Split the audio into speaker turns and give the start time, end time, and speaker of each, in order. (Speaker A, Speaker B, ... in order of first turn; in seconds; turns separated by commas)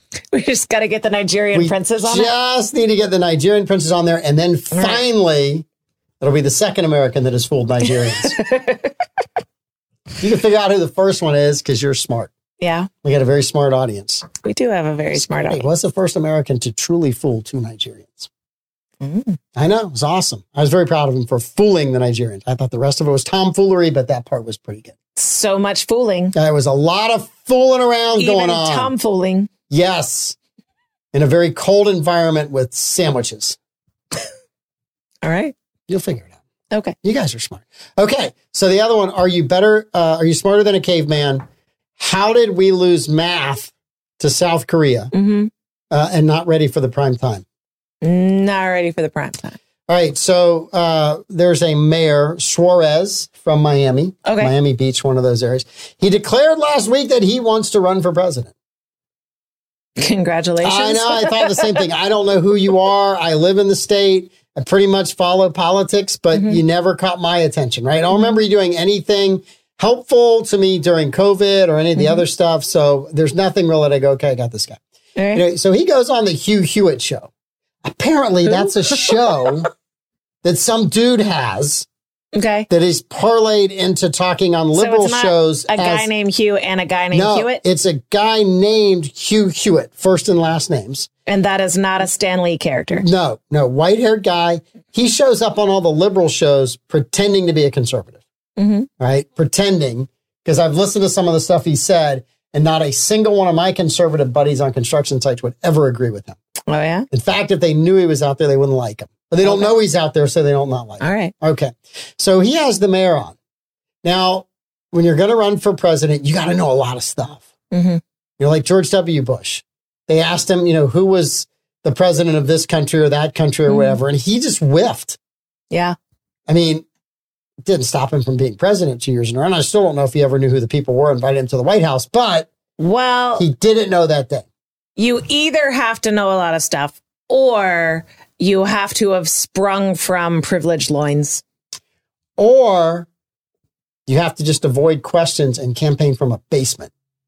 Speaker A: 0.3-2.3, Speaker B: 1.5-5.7, Speaker A: 4.7-5.0, Speaker B: 6.2-8.4, Speaker A: 8.2-8.9, Speaker B: 10.2-12.3, Speaker A: 12.6-12.9, Speaker B: 13.0-14.3, Speaker A: 14.4-15.7, Speaker B: 15.2-18.3, Speaker A: 19.0-19.4, Speaker B: 19.6-24.9, Speaker A: 25.1-26.4, Speaker B: 26.4-28.9, Speaker A: 28.2-29.5, Speaker B: 29.7-30.4, Speaker B: 31.1-33.6, Speaker A: 35.2-35.5, Speaker B: 35.9-36.3, Speaker B: 37.0-41.4, Speaker B: 42.0-45.1, Speaker A: 45.1-45.5, Speaker B: 45.9-47.5, Speaker A: 48.0-49.6, Speaker B: 49.9-58.5, Speaker A: 54.2-54.5, Speaker A: 60.0-61.8, Speaker B: 60.6-74.8, Speaker A: 66.3-66.6, Speaker A: 72.0-72.2, Speaker A: 75.2-75.4, Speaker B: 75.3-77.3, Speaker B: 77.8-79.7, Speaker B: 80.4-81.9, Speaker A: 82.3-82.7, Speaker B: 82.7-86.1, Speaker A: 84.8-87.6, Speaker B: 87.1-91.1, Speaker A: 91.3-93.1, Speaker B: 93.0-98.2, Speaker A: 98.6-98.9, Speaker B: 99.0-106.4, Speaker A: 106.7-107.1, Speaker B: 107.1-113.3, Speaker A: 109.4-109.7, Speaker A: 111.0-111.3, Speaker B: 114.0-117.5, Speaker A: 117.7-118.0, Speaker B: 118.4-125.2, Speaker A: 123.7-124.0, Speaker A: 125.7-126.0, Speaker B: 126.5-126.8, Speaker B: 127.6-132.5, Speaker A: 132.8-133.5, Speaker B: 133.4-134.4, Speaker A: 135.0-141.4, Speaker B: 142.4-143.1, Speaker B: 144.1-146.9